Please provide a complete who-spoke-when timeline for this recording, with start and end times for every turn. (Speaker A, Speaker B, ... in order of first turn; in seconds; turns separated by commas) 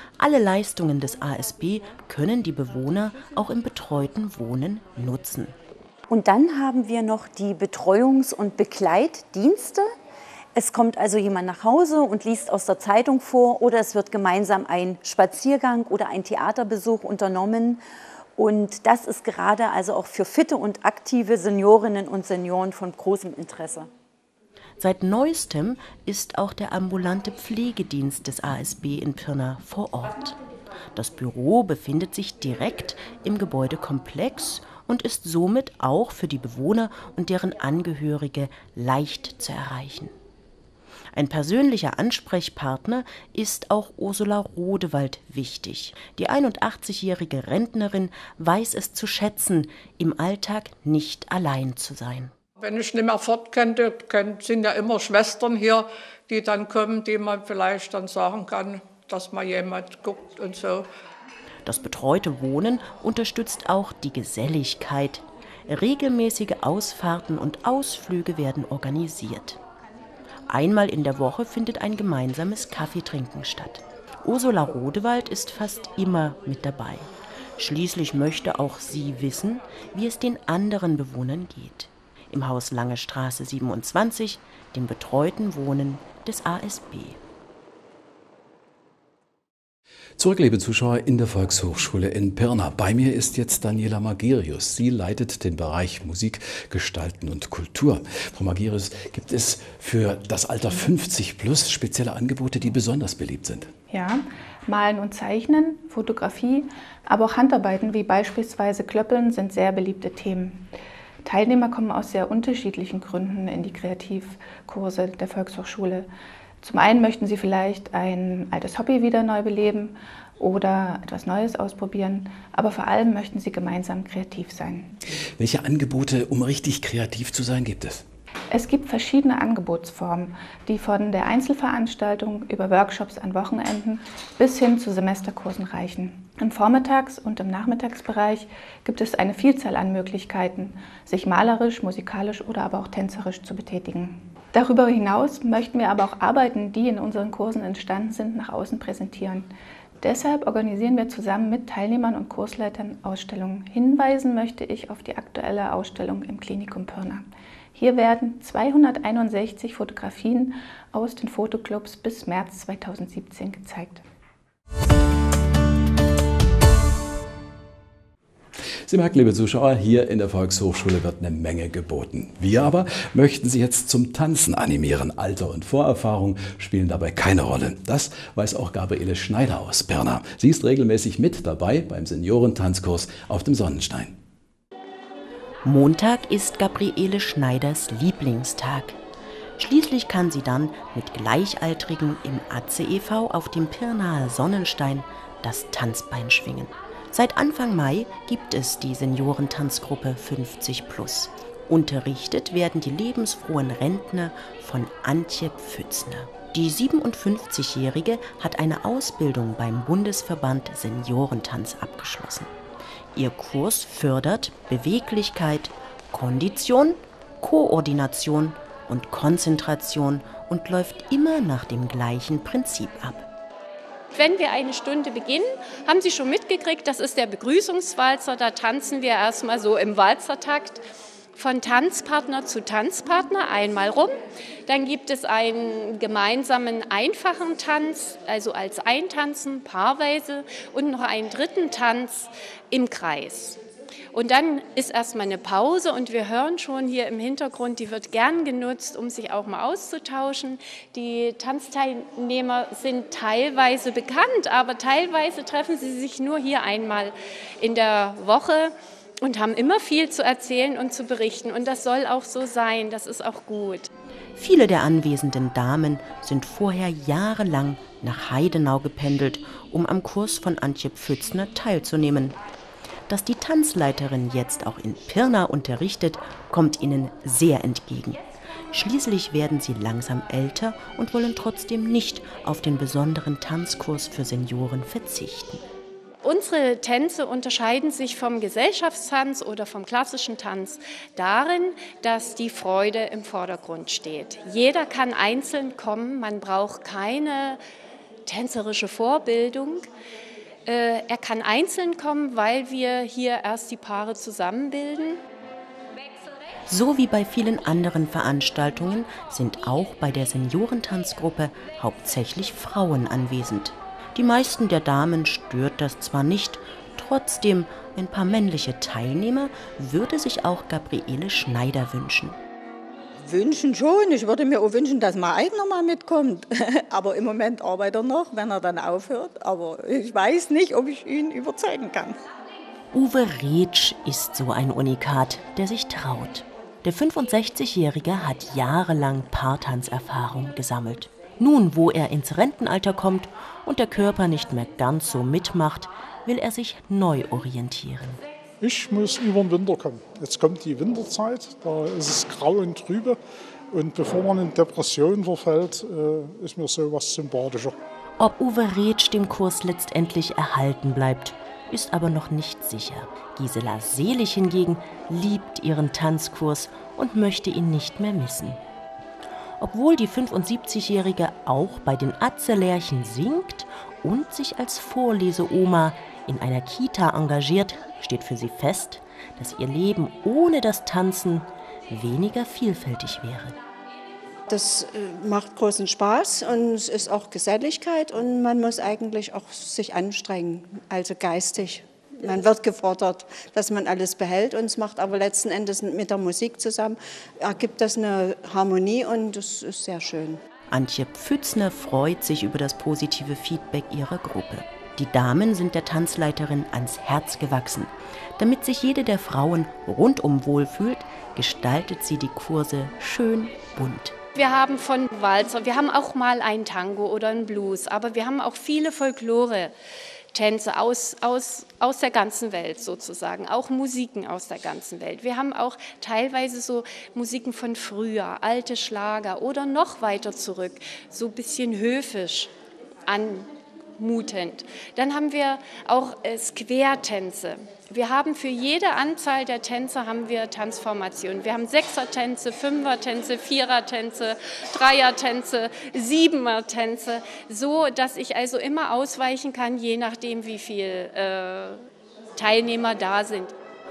Speaker A: 0.2-5.5, Speaker B: 6.1-9.9, Speaker B: 10.5-17.8, Speaker B: 18.4-23.9, Speaker A: 24.8-30.4, Speaker A: 30.9-40.1, Speaker A: 41.1-52.3, Speaker C: 52.6-60.9, Speaker A: 61.6-69.6, Speaker A: 70.5-87.2, Speaker D: 90.2-103.7, Speaker E: 103.9-110.7, Speaker E: 111.2-116.1, Speaker E: 116.6-124.9, Speaker D: 125.4-128.0, Speaker E: 128.5-164.0, Speaker D: 168.8-184.2, Speaker A: 185.6-189.0, Speaker A: 189.6-212.5, Speaker A: 213.1-223.3, Speaker F: 224.1-230.8, Speaker F: 231.3-234.2, Speaker F: 234.7-243.6, Speaker F: 244.1-263.9, Speaker A: 264.4-272.4, Speaker A: 273.1-285.6, Speaker F: 286.2-297.6, Speaker F: 298.2-299.9, Speaker F: 300.6-305.2, Speaker A: 306.7-322.4, Speaker G: 323.2-332.2, Speaker A: 332.9-348.2, Speaker H: 348.6-353.2, Speaker H: 353.7-357.8, Speaker A: 358.2-368.6, Speaker A: 369.6-383.5, Speaker I: 384.5-400.4, Speaker A: 400.7-414.1, Speaker F: 414.3-419.7, Speaker F: 420.3-432.5, Speaker F: 433.1-453.5